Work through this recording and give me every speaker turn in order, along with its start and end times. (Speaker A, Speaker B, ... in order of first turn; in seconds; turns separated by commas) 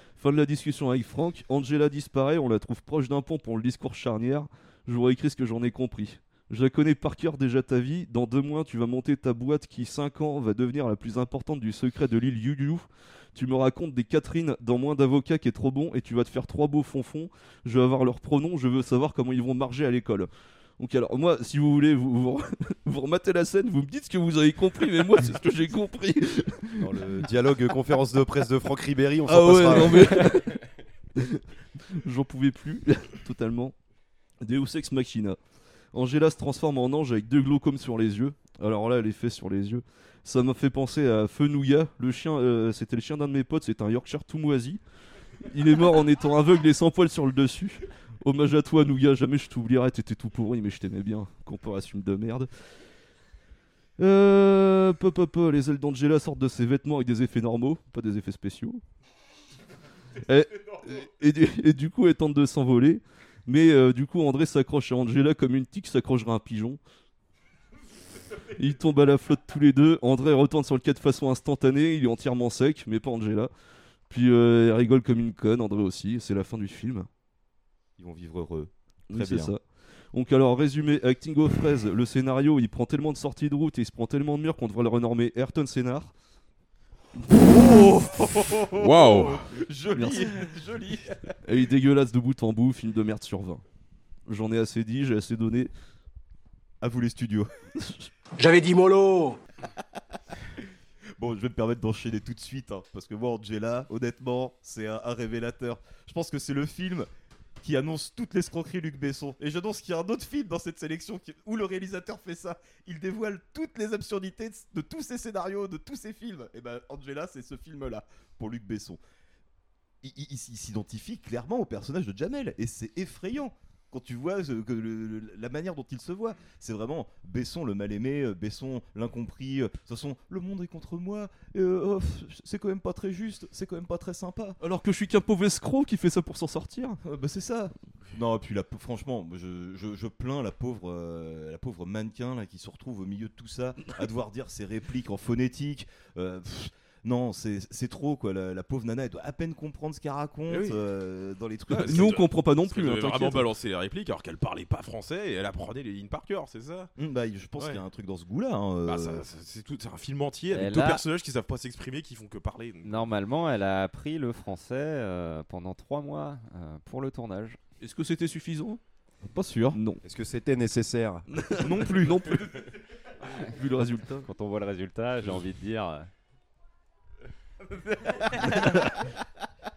Speaker A: 0.2-27.0, Speaker B: 26.8-30.4, Speaker A: 29.3-30.6, Speaker A: 31.2-33.8, Speaker A: 34.4-35.4, Speaker A: 35.9-44.8, Speaker A: 45.5-52.5, Speaker A: 54.0-58.8, Speaker A: 60.3-66.8, Speaker A: 68.6-73.5, Speaker A: 74.1-77.1, Speaker C: 78.0-79.5, Speaker A: 79.1-79.6, Speaker A: 80.1-86.1, Speaker A: 87.4-88.0, Speaker C: 88.2-91.3, Speaker D: 88.8-89.4, Speaker A: 89.9-90.5, Speaker A: 91.4-93.6, Speaker A: 94.3-95.7, Speaker C: 96.8-97.5, Speaker A: 97.8-98.0, Speaker C: 101.2-107.1, Speaker C: 107.6-119.0, Speaker C: 120.0-134.6, Speaker A: 134.6-137.0, Speaker C: 137.0-152.2, Speaker D: 150.5-150.8, Speaker A: 151.7-153.5, Speaker D: 151.7-156.9, Speaker C: 157.0-159.3, Speaker D: 157.6-157.8, Speaker D: 158.8-163.1, Speaker E: 160.5-161.0, Speaker E: 162.8-167.6, Speaker A: 167.8-168.8, Speaker C: 169.2-169.8, Speaker A: 169.7-170.0, Speaker B: 170.0-171.3, Speaker A: 171.3-172.6, Speaker C: 171.6-172.4, Speaker A: 173.3-174.3, Speaker E: 174.2-176.1, Speaker C: 178.1-178.9